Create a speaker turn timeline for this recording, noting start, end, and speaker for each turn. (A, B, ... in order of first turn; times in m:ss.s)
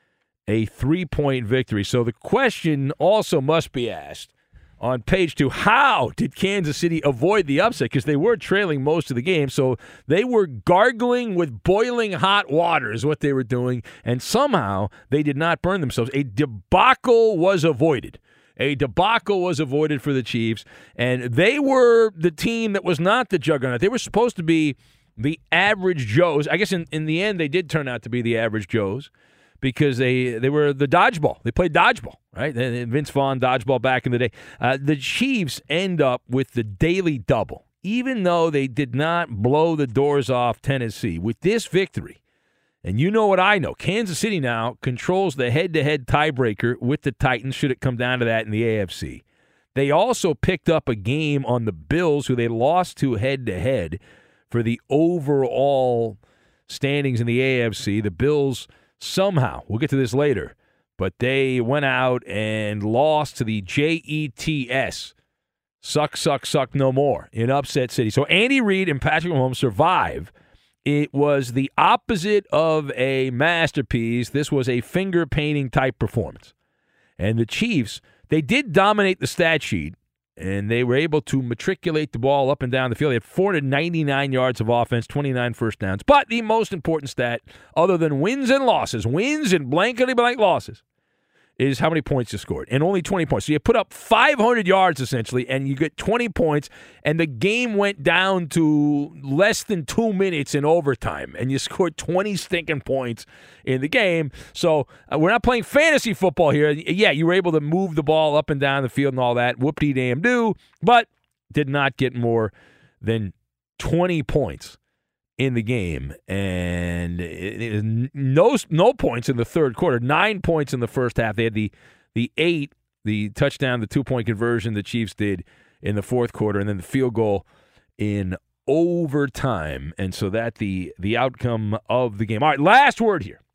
0:00.5-0:29.1 A
0:29.6-0:42.2 A
0:42.8-0:49.2 A
0:49.7-1:05.1 A
1:05.8-1:10.3 A
1:10.8-1:16.5 A
1:17.2-1:30.8 A
1:31.6-1:54.8 A
1:55.4-2:07.4 A
2:08.0-2:13.4 A